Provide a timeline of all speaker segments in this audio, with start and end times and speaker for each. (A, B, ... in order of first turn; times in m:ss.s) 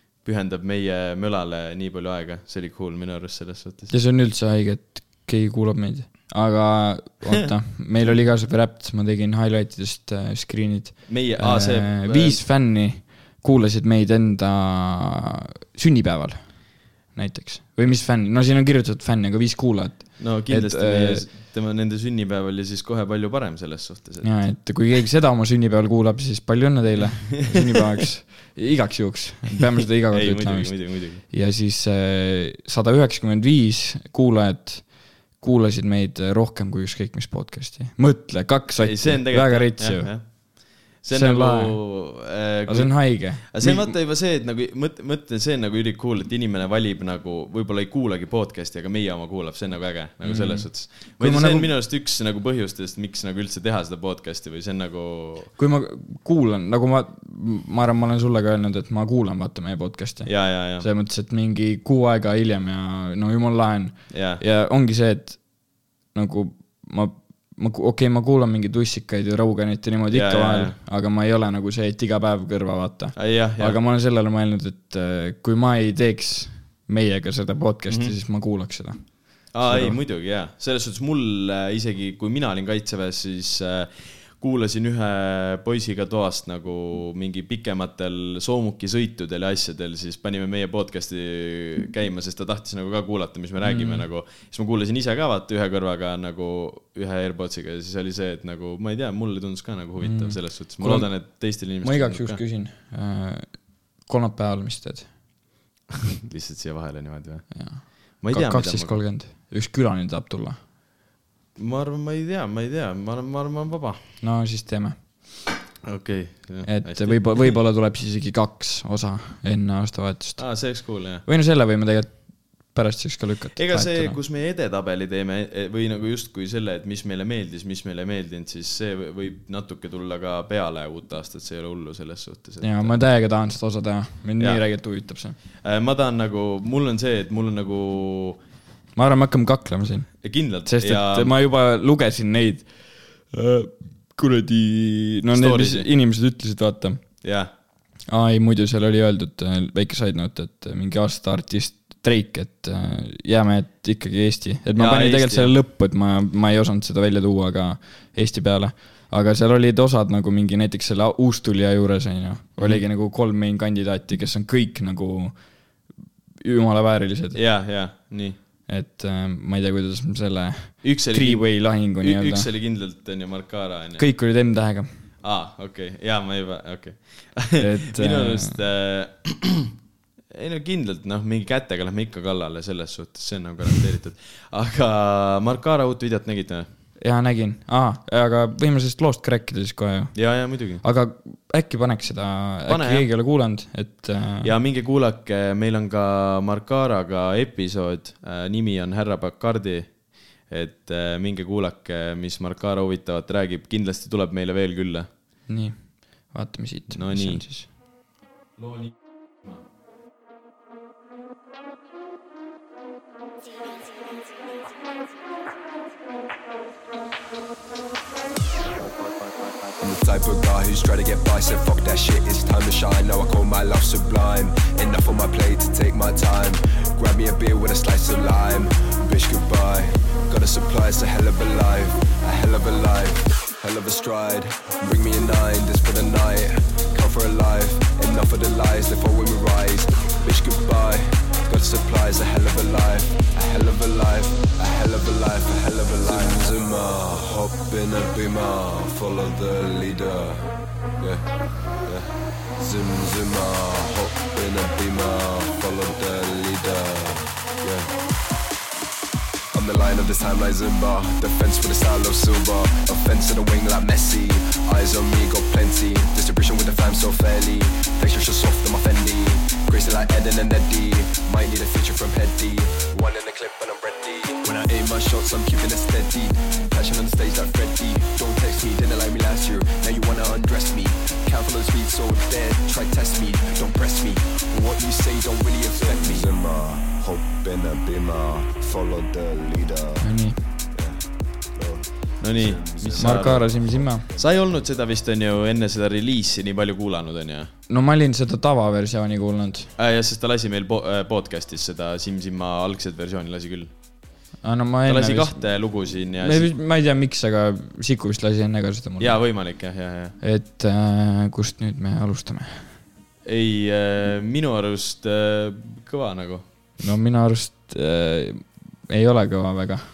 0:00.2-0:03.9 A
0:03.9-0:21.2 B
0:11.1-0:12.4 A
0:20.2-0:24.4 A
0:24.2-0:40.4 B
0:27.4-0:27.8 A
0:30.1-0:31.2 A
0:38.8-0:55.5 A
0:41.1-0:41.8 B
0:42.7-0:44.0 B
0:50.2-0:51.7 B
0:55.6-1:20.0 B
1:00.2-1:00.9 A
1:04.1-1:04.4 A
1:10.1-1:10.8 A
1:13.2-1:13.8 A
1:17.9-1:18.2 A
1:19.5-1:42.4 A
1:33.6-1:34.0 B
1:40.0-1:45.1 B
1:46.2-1:49.0 A
1:47.5-1:50.6 B
1:51.6-1:54.0 A
1:54.2-1:55.0 B
1:55.9-1:57.5 A
1:56.6-2:04.2 B
2:00.4-2:01.2 A
2:03.6-2:13.0 A
2:12.6-2:15.4 B
2:15.6-2:18.4 A
2:19.0-2:27.1 B
2:20.2-2:21.3 A
2:25.3-2:25.9 A
2:27.2-2:27.5 A
2:28.1-2:45.5 B
2:34.8-2:35.6 A
2:42.6-2:42.8 A
2:46.4-2:47.4 B
2:47.4-2:48.4 A
2:48.7-2:52.5 B
2:50.8-2:54.1 A
2:54.0-2:54.9 B
2:55.2-2:59.7 A
2:57.6-2:58.5 B
3:00.3-3:06.7 A
3:07.0-3:10.2 B
3:10.1-3:10.8 A
3:10.8-3:14.5 B
3:12.7-3:13.1 A
3:14.4-3:25.1 A
3:25.5-3:27.7 B
3:27.0-3:27.5 A
3:28.6-3:28.9 A
3:39.8-4:11.2 C
4:11.8-4:18.0 C
4:19.5-4:50.0 C
4:50.0-4:50.4 B
4:50.7-4:54.4 C
4:52.2-4:57.5 A
4:53.0-4:54.0 B
4:57.7-4:59.7 B
4:59.8-5:03.7 A
5:04.4-5:05.5 B
5:04.9-5:06.5 A
5:06.2-5:09.2 B
5:09.0-5:10.2 A
5:10.2-5:12.8 B
5:13.2-5:16.4 A
5:16.8-5:19.8 B